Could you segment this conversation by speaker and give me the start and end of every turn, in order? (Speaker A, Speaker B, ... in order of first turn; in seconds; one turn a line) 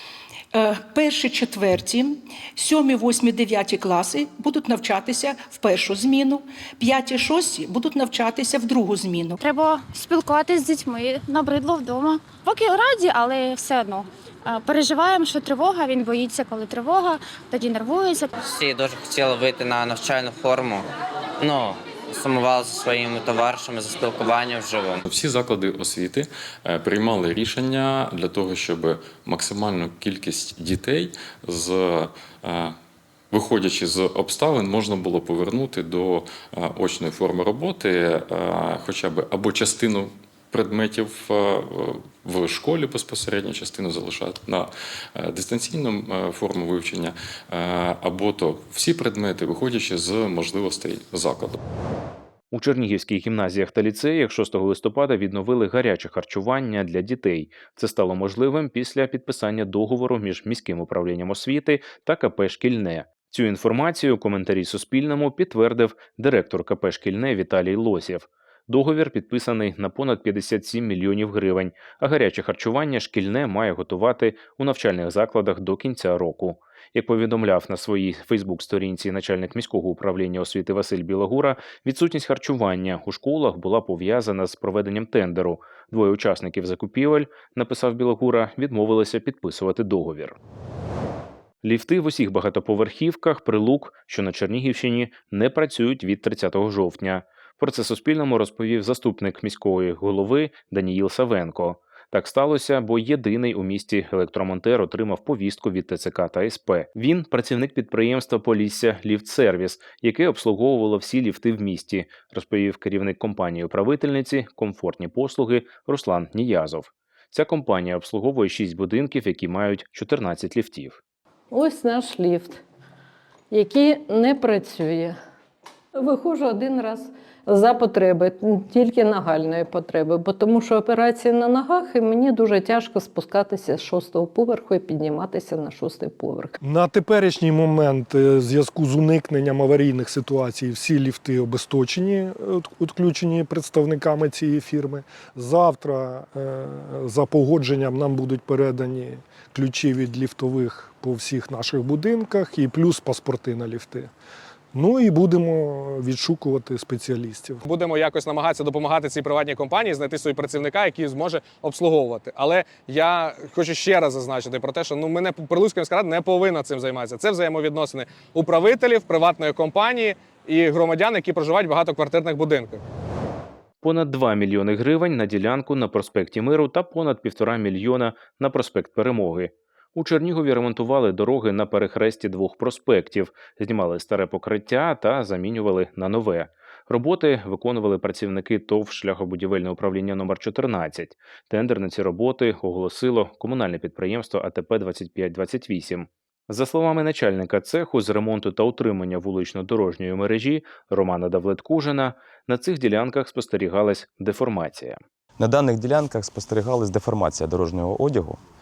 Speaker A: 0.6-9.3
Speaker B: 9.4-18.3
Speaker C: 18.4-20.9
Speaker C: 21.4-25.0
Speaker D: 25.0-32.7
Speaker D: 33.3-51.6
Speaker E: 52.5-90.4
Speaker E: 91.6-121.0
Speaker F: 121.5-122.6
Speaker F: 123.5-125.2
Speaker F: 125.9-136.6
Speaker G: 136.6-154.1
Speaker G: 154.7-157.7
Speaker H: 157.7-172.8
Speaker E: 173.8-205.0
Speaker I: 205.4-208.4